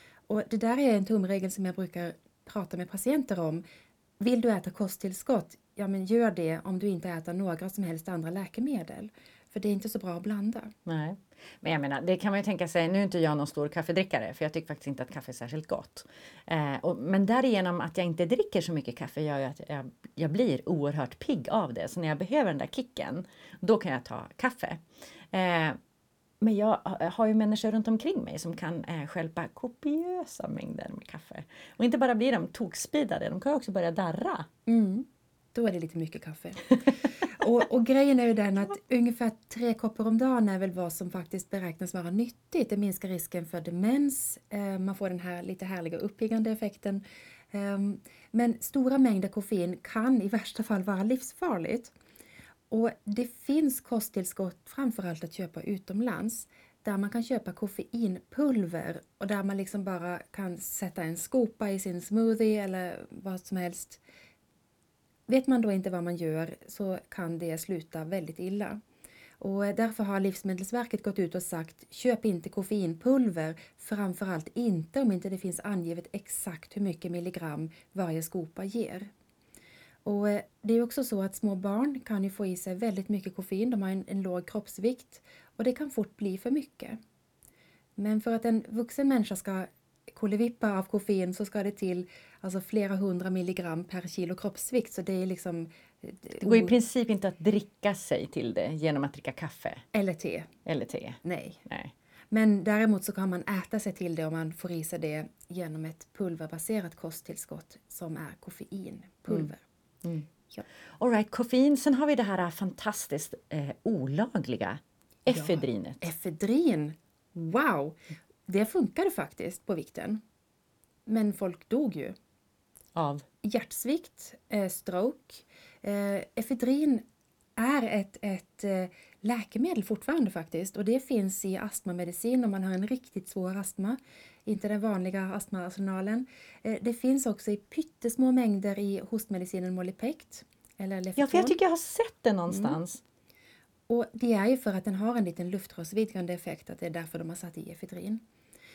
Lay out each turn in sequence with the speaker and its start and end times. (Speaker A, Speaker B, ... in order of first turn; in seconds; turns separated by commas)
Speaker A: 0.3-3.6, Speaker A: 4.2-10.7, Speaker B: 10.8-25.8, Speaker B: 26.4-34.5, Speaker A: 34.7-51.9, Speaker A: 52.7-64.0, Speaker A: 65.3-68.8, Speaker A: 69.4-79.1, Speaker A: 80.0-87.0, Speaker A: 88.0-96.7, Speaker B: 96.4-99.8, Speaker A: 99.9-100.5, Speaker B: 100.7-101.9, Speaker A: 101.2-101.6, Speaker A: 102.3-109.6, Speaker B: 111.0-116.0, Speaker A: 115.3-120.2, Speaker A: 121.1-122.1, Speaker B: 122.9-123.2, Speaker A: 123.4-127.0, Speaker A: 127.6-141.6, Speaker B: 141.2-143.0, Speaker A: 142.5-142.8, Speaker A: 143.9-148.2